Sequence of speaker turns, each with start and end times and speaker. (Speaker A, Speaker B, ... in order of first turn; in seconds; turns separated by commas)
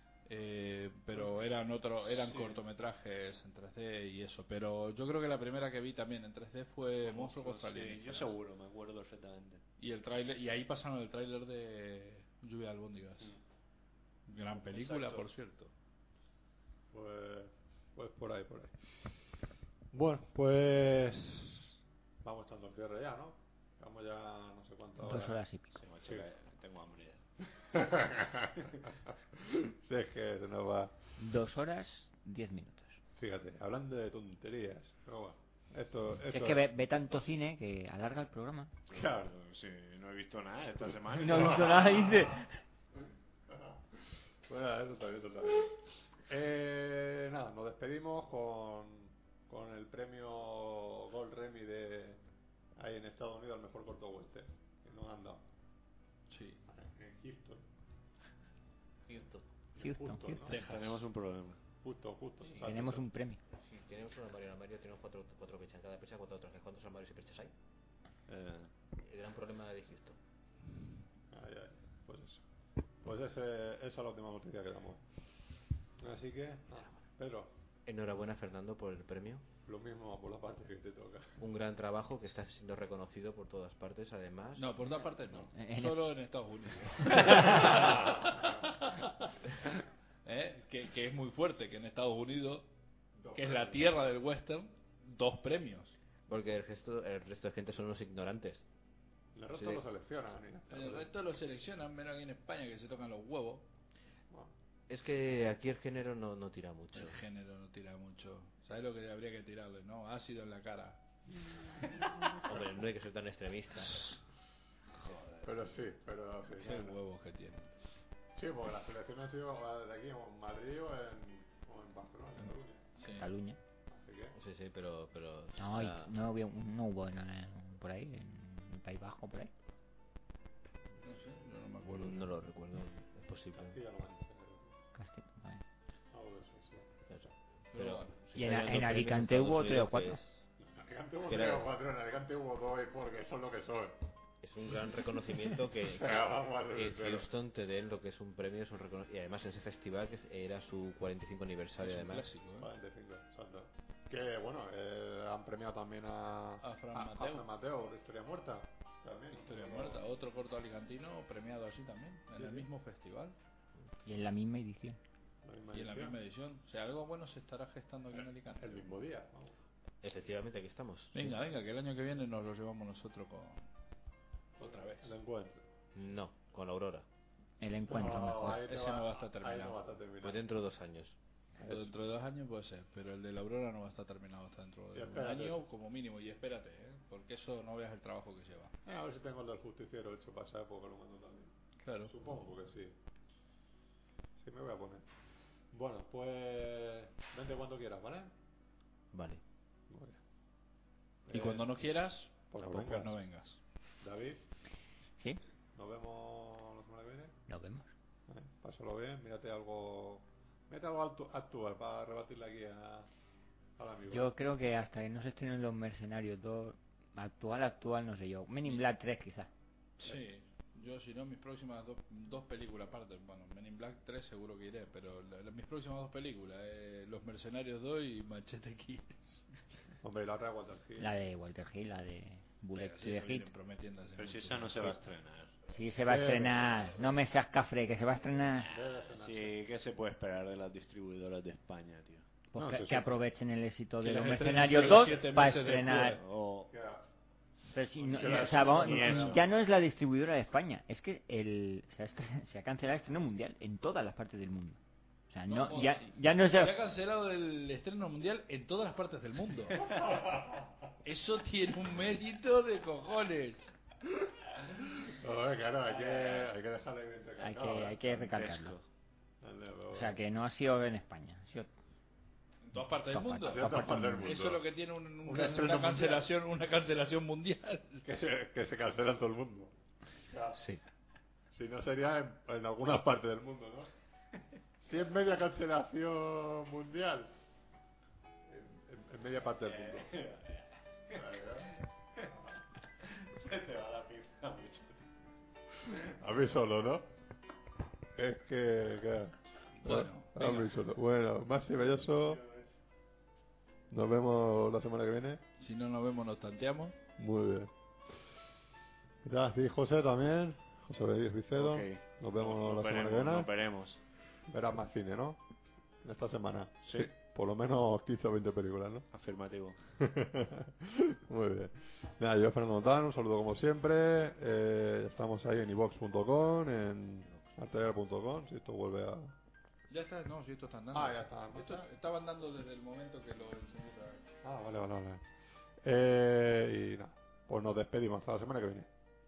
Speaker A: 0.3-8.3, Speaker B: 1.2-1.4, Speaker B: 1.9-2.6, Speaker B: 7.0-9.6, Speaker A: 9.8-13.3, Speaker A: 14.3-15.7, Speaker B: 14.6-15.3, Speaker C: 16.9-19.2, Speaker C: 19.9-25.4, Speaker D: 25.0-25.8, Speaker B: 25.7-27.2, Speaker C: 27.6-28.8, Speaker C: 29.3-30.9, Speaker D: 31.2-33.0, Speaker C: 33.2-36.7, Speaker D: 36.3-38.7, Speaker B: 38.9-42.1, Speaker C: 38.9-39.3, Speaker D: 41.1-42.6, Speaker C: 41.3-42.4, Speaker C: 43.5-52.2, Speaker C: 52.8-55.4, Speaker A: 56.3-56.6, Speaker C: 56.7-57.6, Speaker E: 59.1-59.5, Speaker C: 59.8-60.6, Speaker D: 59.8-60.6, Speaker B: 60.5-61.6, Speaker A: 60.5-60.9, Speaker C: 61.8-63.1, Speaker D: 62.6-63.4, Speaker E: 63.5-67.5, Speaker B: 68.3-68.7, Speaker E: 69.0-70.2, Speaker C: 71.3-72.4, Speaker C: 73.0-75.0, Speaker C: 76.0-77.5, Speaker E: 77.9-79.4, Speaker C: 79.7-81.4, Speaker E: 81.4-84.8, Speaker A: 84.6-89.1, Speaker D: 85.5-86.1, Speaker D: 87.0-88.1, Speaker A: 90.2-92.7, Speaker C: 93.2-93.9, Speaker A: 93.3-96.0, Speaker E: 96.3-98.6, Speaker C: 99.3-101.1, Speaker E: 99.5-99.8, Speaker A: 100.7-103.7, Speaker E: 104.9-107.2, Speaker A: 106.9-111.0, Speaker C: 112.2-112.6, Speaker E: 112.4-114.2, Speaker B: 115.0-115.5, Speaker C: 115.4-117.0, Speaker A: 116.6-117.7, Speaker C: 118.3-122.8, Speaker A: 123.0-123.3, Speaker D: 123.2-123.6, Speaker C: 123.9-124.3, Speaker E: 124.3-126.2, Speaker D: 125.6-129.5, Speaker A: 131.0-132.3, Speaker E: 131.8-133.8, Speaker C: 133.6-134.8, Speaker D: 134.9-135.6, Speaker C: 136.1-136.9, Speaker E: 137.1-140.4, Speaker A: 137.7-138.2, Speaker D: 138.3-140.2, Speaker C: 140.6-144.0, Speaker E: 141.3-141.7, Speaker E: 144.4-152.3, Speaker C: 145.5-147.3, Speaker A: 151.8-152.7, Speaker C: 152.6-160.1, Speaker A: 156.6-157.5, Speaker A: 159.3-163.4, Speaker C: 162.3-162.7, Speaker D: 164.1-165.0, Speaker C: 165.4-166.2, Speaker A: 165.7-169.0, Speaker C: 168.6-169.6, Speaker E: 170.0-171.3, Speaker A: 171.1-173.7, Speaker A: 174.6-175.1, Speaker C: 174.6-175.6, Speaker E: 175.9-177.1, Speaker D: 177.6-178.6, Speaker C: 177.9-180.4, Speaker A: 178.3-179.8, Speaker E: 180.2-181.2, Speaker C: 181.6-181.9, Speaker A: 181.6-188.8, Speaker C: 184.9-185.6, Speaker C: 188.8-192.9, Speaker A: 191.8-192.1, Speaker C: 194.4-195.1, Speaker C: 195.7-198.3, Speaker E: 199.1-199.4, Speaker C: 199.9-200.2, Speaker C: 201.3-201.7, Speaker A: 201.3-203.6, Speaker C: 202.5-203.2, Speaker C: 204.0-204.4, Speaker C: 205.8-207.3, Speaker D: 207.5-207.9, Speaker C: 208.3-213.1, Speaker C: 213.8-214.4, Speaker D: 214.1-219.5, Speaker A: 220.0-229.2, Speaker C: 230.0-231.1, Speaker D: 231.0-233.5, Speaker A: 232.7-235.0, Speaker B: 234.2-235.6, Speaker D: 235.7-238.7, Speaker C: 236.1-237.0, Speaker C: 238.6-239.6, Speaker B: 238.7-242.3, Speaker D: 242.5-246.2, Speaker C: 242.6-243.1, Speaker A: 244.0-246.2, Speaker B: 246.2-246.7, Speaker C: 246.7-247.0, Speaker D: 247.7-254.8, Speaker B: 248.0-249.5, Speaker C: 248.1-249.4, Speaker D: 255.3-256.8, Speaker A: 255.5-259.9, Speaker C: 259.9-260.7, Speaker A: 261.0-263.8, Speaker C: 264.8-268.2, Speaker B: 265.9-266.5, Speaker D: 267.4-268.8, Speaker B: 268.1-268.8, Speaker C: 269.4-270.2, Speaker D: 269.9-271.7, Speaker A: 272.6-278.1, Speaker D: 273.1-274.4, Speaker C: 273.4-274.7, Speaker C: 275.2-276.3, Speaker C: 278.0-279.7, Speaker E: 280.5-280.8, Speaker C: 281.5-283.9, Speaker C: 284.8-287.4, Speaker C: 288.5-290.1, Speaker B: 289.7-291.2, Speaker C: 291.1-291.7, Speaker B: 293.0-295.0, Speaker C: 295.8-297.1, Speaker C: 298.1-302.4, Speaker A: 299.8-300.8, Speaker B: 302.3-302.7, Speaker C: 303.9-305.4, Speaker A: 305.6-306.9, Speaker C: 307.2-307.7, Speaker C: 309.2-313.5, Speaker B: 311.6-314.0, Speaker C: 314.5-315.4, Speaker C: 316.0-319.1, Speaker B: 316.8-317.1, Speaker B: 319.1-319.8, Speaker C: 320.0-329.4, Speaker A: 329.9-334.2, Speaker C: 330.9-331.9, Speaker C: 334.4-335.2, Speaker C: 335.8-338.9